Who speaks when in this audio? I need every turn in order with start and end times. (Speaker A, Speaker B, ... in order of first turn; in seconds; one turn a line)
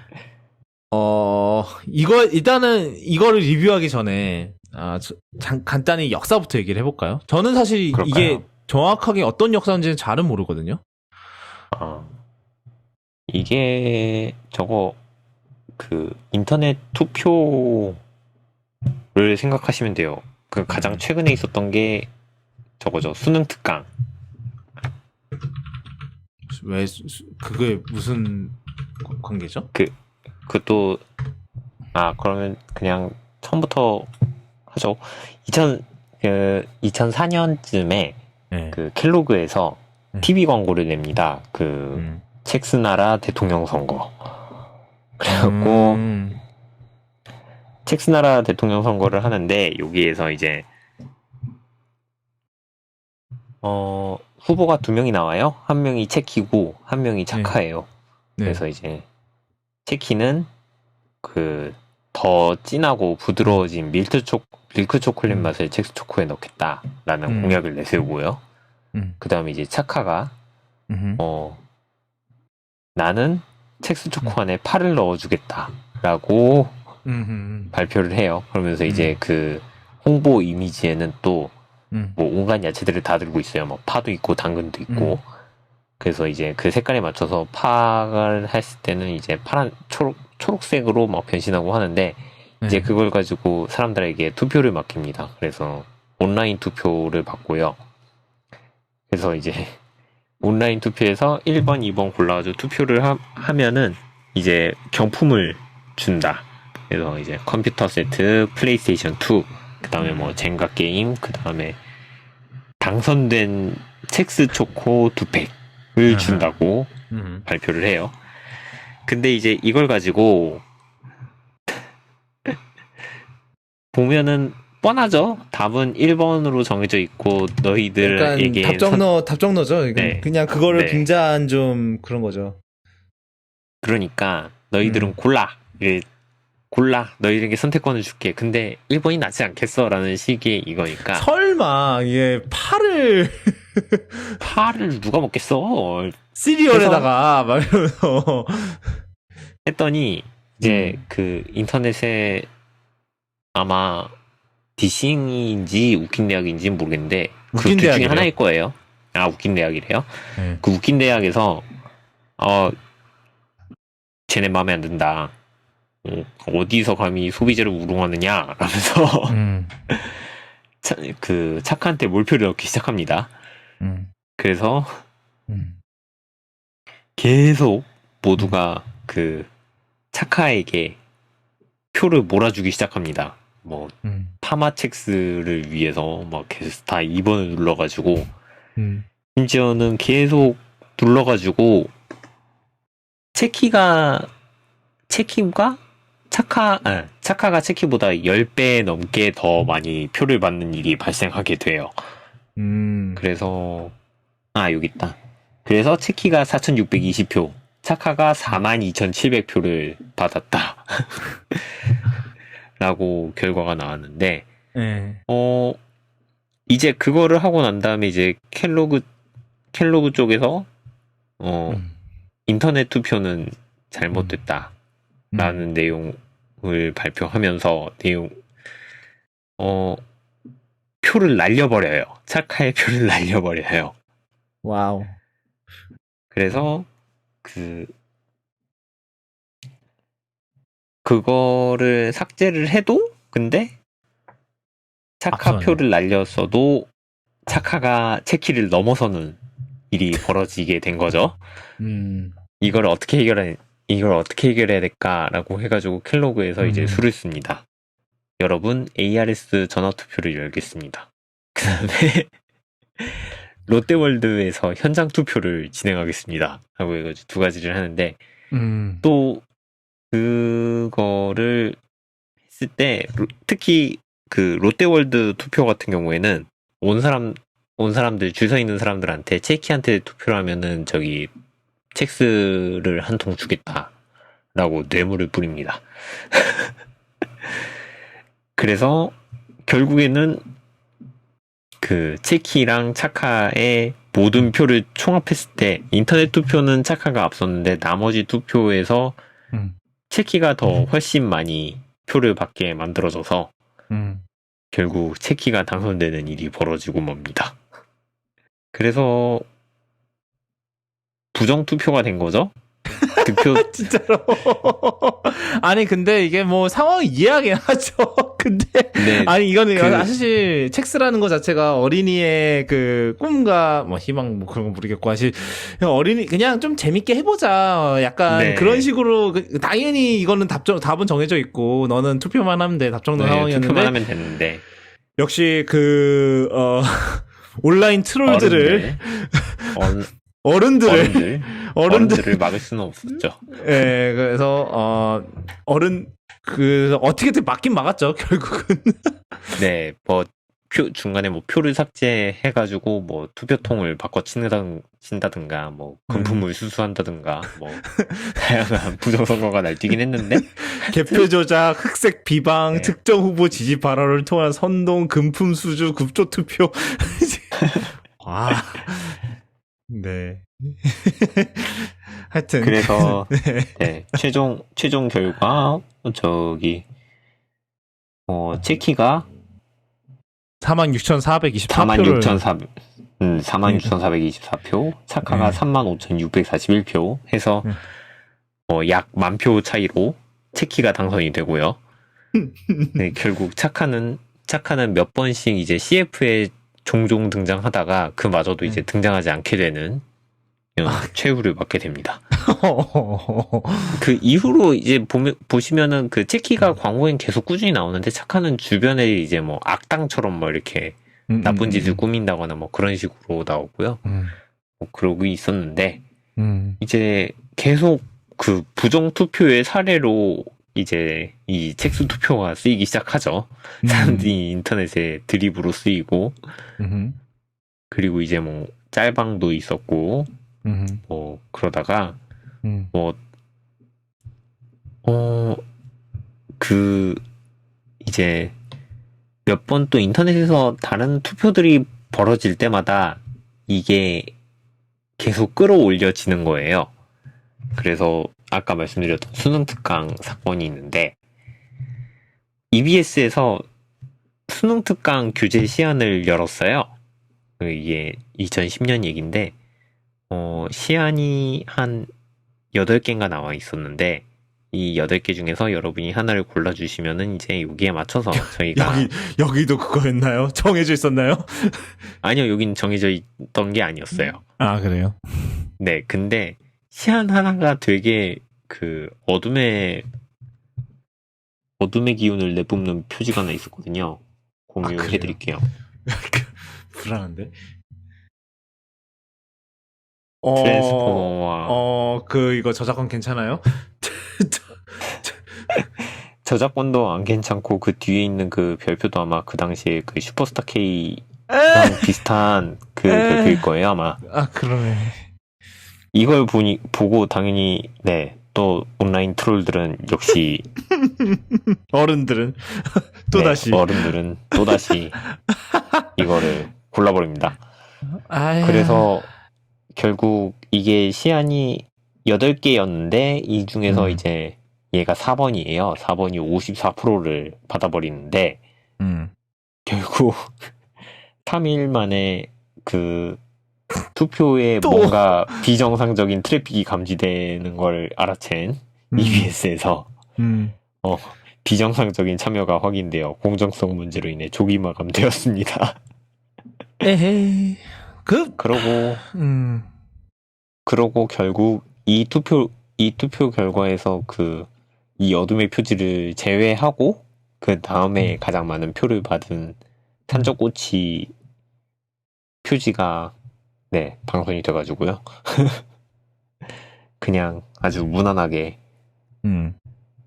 Speaker A: 0.9-10.8
Speaker B: 7.9-8.4
Speaker B: 11.7-12.1
Speaker B: 13.3-15.0
Speaker B: 15.8-18.0
Speaker B: 19.1-22.1
Speaker A: 20.7-21.0
Speaker B: 22.8-23.9
Speaker A: 26.5-29.7
Speaker B: 29.7-31.0
Speaker B: 31.9-34.1
Speaker B: 34.7-38.2
Speaker A: 38.5-38.8
Speaker B: 38.7-44.3
Speaker A: 41.9-42.2
Speaker B: 45.2-46.0
Speaker A: 45.3-46.4
Speaker B: 47.9-50.7
Speaker B: 53.6-57.9
Speaker B: 58.5-59.0
Speaker B: 59.9-60.5
Speaker B: 61.2-68.4
Speaker A: 67.3-67.6
Speaker B: 69.2-70.3
Speaker A: 70.9-71.2
Speaker B: 71.2-71.6
Speaker B: 73.0-76.8
Speaker A: 77.0-77.7
Speaker B: 77.7-81.5
Speaker A: 78.9-79.2
Speaker A: 81.9-82.2
Speaker B: 82.2-85.2
Speaker A: 84.9-85.2
Speaker B: 86.0-97.8
Speaker A: 92.6-92.9
Speaker B: 99.1-99.8
Speaker B: 100.4-111.8
Speaker A: 110.0-110.3
Speaker B: 112.8-116.9
Speaker A: 116.1-116.5
Speaker A: 117.1-117.4
Speaker B: 117.5-118.2
Speaker B: 119.0-120.6
Speaker B: 123.9-129.0
Speaker A: 128.0-132.6
Speaker B: 129.9-131.1
Speaker B: 133.8-136.1
Speaker A: 134.8-135.1
Speaker B: 136.7-141.2
Speaker A: 141.1-144.4
Speaker B: 144.4-146.2
Speaker A: 146.3-148.9
Speaker B: 146.7-147.1
Speaker B: 149.6-152.5
Speaker A: 150.6-151.0
Speaker B: 153.5-154.1
Speaker B: 154.8-161.7
Speaker A: 157.5-158.3
Speaker A: 160.4-160.6
Speaker B: 162.4-162.7
Speaker B: 164.3-165.3
Speaker B: 166.0-169.4
Speaker A: 169.3-169.7
Speaker B: 169.9-170.3
Speaker B: 170.8-173.3
Speaker A: 173.8-174.1
Speaker B: 174.4-175.0
Speaker A: 175.5-175.8
Speaker B: 177.2-179.5
Speaker B: 180.1-181.0
Speaker B: 181.9-188.3
Speaker A: 184.0-184.3
Speaker A: 188.8-189.1
Speaker B: 189.3-191.9
Speaker B: 193.3-194.3
Speaker B: 195.1-195.8
Speaker B: 196.3-201.9
Speaker A: 202.6-203.2
Speaker B: 203.2-203.9
Speaker B: 204.5-212.0
Speaker B: 212.8-214.5
Speaker A: 214.7-215.2
Speaker B: 215.3-215.8
Speaker B: 216.7-219.0
Speaker B: 219.7-220.7
Speaker B: 221.4-221.8
Speaker A: 221.7-221.9
Speaker B: 222.5-224.7
Speaker A: 225.3-225.6
Speaker B: 225.4-228.4
Speaker B: 229.6-230.0
Speaker B: 231.0-233.9
Speaker A: 234.6-235.1
Speaker B: 236.3-236.9
Speaker B: 237.4-237.9
Speaker B: 241.0-243.7
Speaker B: 245.2-246.9
Speaker A: 245.3-245.8
Speaker B: 247.4-249.4
Speaker B: 249.9-251.4
Speaker A: 251.8-252.3
Speaker B: 252.6-257.6
Speaker A: 256.6-257.0
Speaker B: 258.4-262.3
Speaker B: 263.0-268.2
Speaker A: 268.5-269.0
Speaker B: 269.0-269.4
Speaker B: 270.1-271.8
Speaker B: 272.5-281.3
Speaker B: 281.9-283.9
Speaker B: 284.5-286.7
Speaker B: 288.6-290.4
Speaker B: 291.8-299.2
Speaker B: 300.1-303.5
Speaker A: 303.9-304.2
Speaker B: 304.7-307.6
Speaker B: 308.7-309.4
Speaker B: 311.3-312.5
Speaker A: 312.9-333.9
Speaker B: 313.2-313.7
Speaker B: 319.0-320.1
Speaker B: 328.3-328.9
Speaker B: 333.1-334.6
Speaker A: 335.2-339.8
Speaker B: 338.2-339.0
Speaker B: 339.7-340.1
Speaker A: 340.4-342.4
Speaker B: 340.8-343.5
Speaker A: 343.5-349.6
Speaker B: 349.5-357.8
Speaker A: 356.1-356.4
Speaker A: 357.8-358.4
Speaker B: 358.3-361.2
Speaker A: 360.4-367.6
Speaker A: 368.2-369.2
Speaker A: 369.9-373.8
Speaker B: 372.6-376.9
Speaker B: 378.3-379.3
Speaker A: 380.6-382.4
Speaker B: 381.7-387.7
Speaker A: 383.6-383.9
Speaker A: 385.2-385.6
Speaker B: 388.7-391.8
Speaker A: 392.4-393.0
Speaker B: 393.0-400.0
Speaker B: 400.8-402.2
Speaker A: 402.3-404.0
Speaker B: 403.9-414.0
Speaker A: 411.3-412.0
Speaker A: 414.0-414.3
Speaker B: 414.8-416.0
Speaker A: 416.4-416.8
Speaker B: 416.8-426.4
Speaker A: 423.8-424.3
Speaker A: 426.8-427.2
Speaker B: 427.9-430.3
Speaker A: 430.6-431.0
Speaker B: 431.1-432.2
Speaker A: 432.6-432.9
Speaker B: 432.9-433.2
Speaker B: 435.0-435.6
Speaker B: 436.6-437.2
Speaker B: 438.0-438.5
Speaker B: 439.4-444.3
Speaker B: 445.2-446.9
Speaker B: 447.7-451.2
Speaker B: 452.7-453.6
Speaker B: 454.5-456.9
Speaker B: 457.6-459.5
Speaker B: 460.3-462.1
Speaker B: 462.7-469.1
Speaker A: 468.3-471.9
Speaker B: 472.2-474.4
Speaker A: 474.6-475.6
Speaker B: 475.8-480.1
Speaker B: 481.8-485.7
Speaker A: 484.8-485.4
Speaker A: 486.1-487.5
Speaker A: 490.4-495.4
Speaker B: 490.6-491.8
Speaker B: 495.7-504.2
Speaker A: 501.5-502.1
Speaker A: 503.1-503.6
Speaker A: 504.2-505.2
Speaker B: 506.1-510.7
Speaker A: 511.0-514.1
Speaker B: 513.3-515.2
Speaker A: 515.5-516.1
Speaker B: 516.1-517.6
Speaker A: 518.3-519.1
Speaker B: 518.6-519.3
Speaker B: 519.9-528.6
Speaker A: 523.9-524.2
Speaker A: 529.0-529.3
Speaker B: 529.9-530.6
Speaker B: 531.4-533.4
Speaker B: 534.1-540.1
Speaker A: 534.8-535.6
Speaker A: 539.1-539.5
Speaker A: 540.4-540.7
Speaker B: 541.0-546.0
Speaker A: 547.0-549.9
Speaker B: 548.6-549.2
Speaker B: 550.9-561.3
Speaker B: 562.6-563.3
Speaker B: 563.9-565.8
Speaker B: 567.2-568.8
Speaker A: 569.4-569.8